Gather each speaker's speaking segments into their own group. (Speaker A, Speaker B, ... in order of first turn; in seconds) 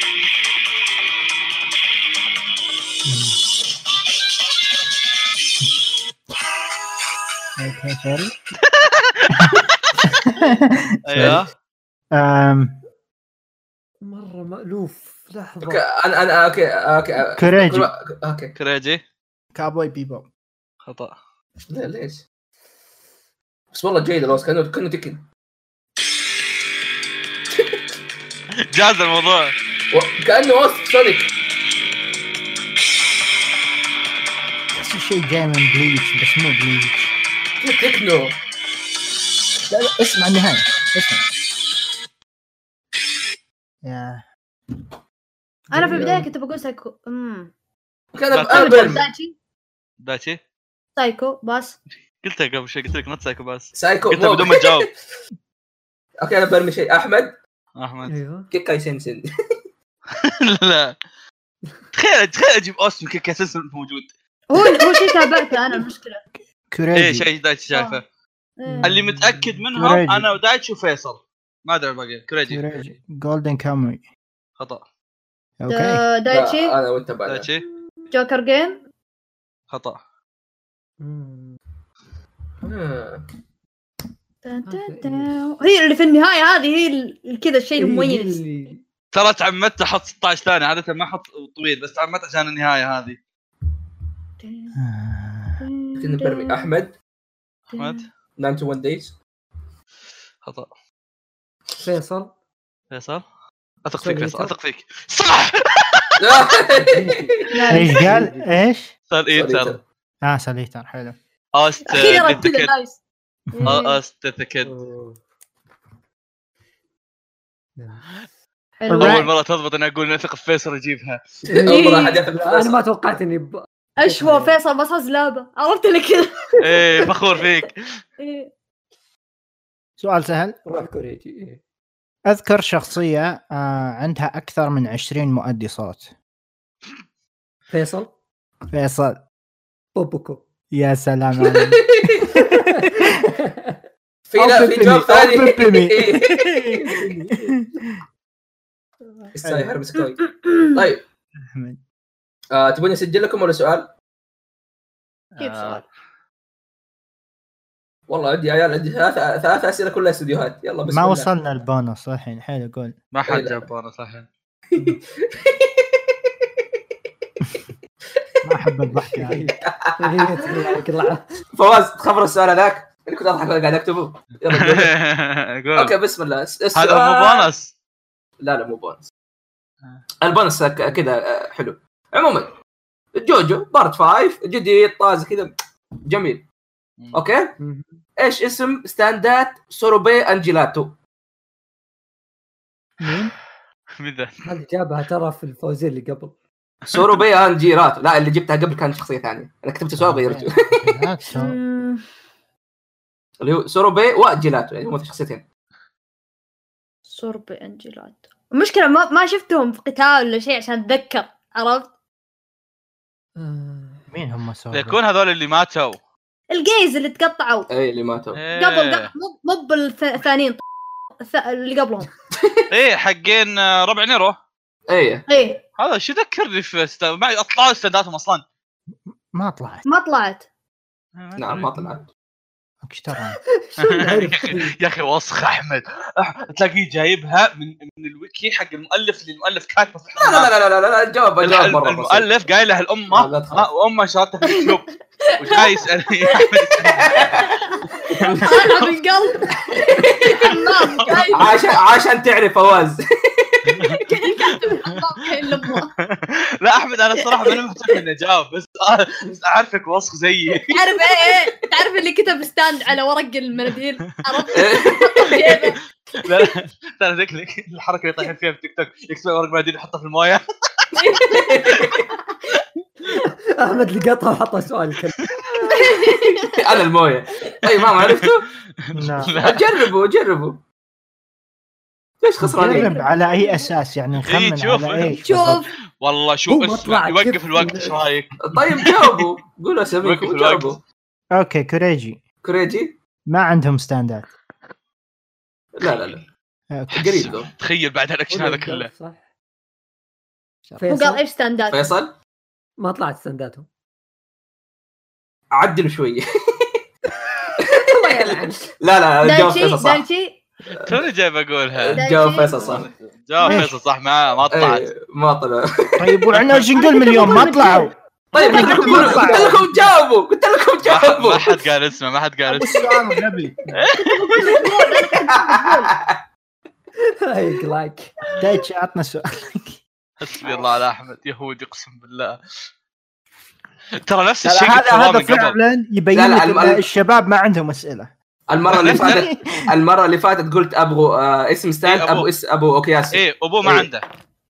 Speaker A: 3.0-3.4, 7.6-8.3, 9.4-11.4, 12.1-12.8, 17.3-17.9, 19.5-20.3, 34.7-37.1, 39.7-41.2, 43.8-44.2, 45.7-46.2, 66.4-67.2, 69.7-70.3, 72.5-74.0, 75.6-76.0, 94.8-95.6, 107.7-108.9, 110.2-111.2, 118.8-119.2, 130.0-130.6, 132.2-136.1, 138.7-139.2, 140.7-143.1, 144.3-147.9, 149.4-149.8, 151.4-151.8, 160.9-162.9, 168.4-169.4, 193.0-193.3, 199.9-201.6, 214.1-215.0, 229.1-229.8, 232.8-233.4, 253.7-254.0, 278.9-279.3, 282.4-285.6, 291.3-292.2, 293.3-294.3, 296.7-297.3, 313.4-313.8, 316.0-319.9, 322.5-323.6, 328.4-329.8, 334.5-338.1, 338.7-339.6
Speaker B: 8.6-9.5, 11.0-11.5, 18.6-19.0, 20.8-21.1, 28.7-29.5, 48.3-49.1, 50.0-50.4, 52.2-54.9, 57.8-58.1, 60.2-61.0, 61.9-64.1, 66.9-68.0, 68.8-72.7, 74.6-74.8, 77.2-77.6, 79.7-80.0, 89.1-93.2, 97.7-98.0, 100.4-100.7, 102.9-103.2, 103.8-106.2, 109.1-109.8, 111.5-112.7, 113.6-114.7, 119.0-121.2, 126.6-127.8, 155.3-155.8, 163.1-164.3, 174.5-175.9, 176.7-177.7, 194.0-194.4, 196.9-197.2, 214.7-216.0, 218.3-219.1, 222.7-224.4, 225.8-228.4, 231.2-231.8, 233.8-240.5, 241.4-247.3, 248.2-248.6, 250.9-251.6, 256.0-260.8, 266.2-270.4, 278.0-278.3, 278.9-279.9, 284.2-289.2, 290.0-290.8, 297.0-298.9, 310.8-312.0, 312.5-314.9, 316.3-316.6, 320.8-322.9, 323.7-324.5, 330.2-332.4, 334.0-335.6, 338.7-339.3, 341.8-342.3, 343.1-344.0
Speaker C: 14.0-15.8, 58.0-58.5, 68.7-69.6, 81.0-81.6, 84.7-85.3, 87.8-88.8, 101.8-102.3, 104.0-104.5, 106.8-108.5, 114.6-115.2, 117.8-118.2, 121.5-124.6, 130.6-131.6, 137.7-138.1, 139.9-140.4, 142.4-143.8, 168.9-171.4, 187.6-188.0, 194.4-196.3, 213.3-214.0, 233.3-234.8, 273.0-275.3, 286.5-288.0, 298.3-299.2, 300.8-301.2, 302.8-303.7, 307.5-308.7, 323.7-323.9, 327.0-328.1
Speaker D: 15.6-18.5, 21.7-22.2, 23.7-25.2, 29.9-31.3, 37.6-38.4, 48.1-49.0, 53.7-54.9, 56.2-57.4, 58.5-59.3, 76.3-77.5, 82.6-83.2, 96.0-96.9, 98.4-99.2, 106.2-107.2, 109.3-109.8, 121.5-122.8, 141.5-142.2, 144.3-146.9, 149.3-151.0, 152.5-153.9, 158.1-161.3, 163.3-163.7, 164.7-166.0, 169.6-170.8, 171.5-174.9, 175.8-177.5, 178.4-179.1, 180.2-182.5, 183.1-185.5, 186.1-186.4, 187.1-187.6, 188.2-191.0, 196.9-200.8, 203.4-205.4, 217.7-218.4, 224.9-225.2, 231.3-232.1, 240.2-242.3, 243.1-243.7, 246.8-247.5, 249.7-250.5, 251.3-253.6, 264.5-265.6, 271.3-272.1, 276.1-278.5, 279.4-280.6, 282.2-282.9, 288.4-290.8, 292.4-292.9, 295.7-296.2, 296.9-297.5, 301.7-302.1, 305.5-306.2, 307.7-310.0, 310.7-311.0, 311.8-312.9, 314.5-316.1, 318.3-321.4, 325.0-326.2, 336.1-336.8, 338.5-343.9
Speaker E: 45.7-47.5, 48.5-49.3, 51.0-51.8, 64.5-66.2, 67.7-68.0, 68.6-68.9, 75.7-76.8, 78.1-78.8, 84.4-88.4, 94.4-94.7, 95.6-96.7, 97.7-98.1, 107.5-108.0, 111.9-113.0, 113.5-114.0, 118.8-119.3, 121.7-122.2, 124.0-127.4, 128.2-128.5, 155.4-155.8, 201.3-202.0, 207.1-211.9, 216.5-217.7, 218.5-220.6, 221.2-222.1, 225.3-225.6, 229.8-230.4, 245.3-245.7, 247.4-249.6, 250.2-251.5, 254.0-255.9, 257.2-257.6, 260.6-265.8, 270.9-271.6, 275.7-276.5, 282.7-283.6, 285.2-285.7, 300.9-301.9, 309.2-310.4, 311.9-312.8, 316.8-319.5, 324.0-325.9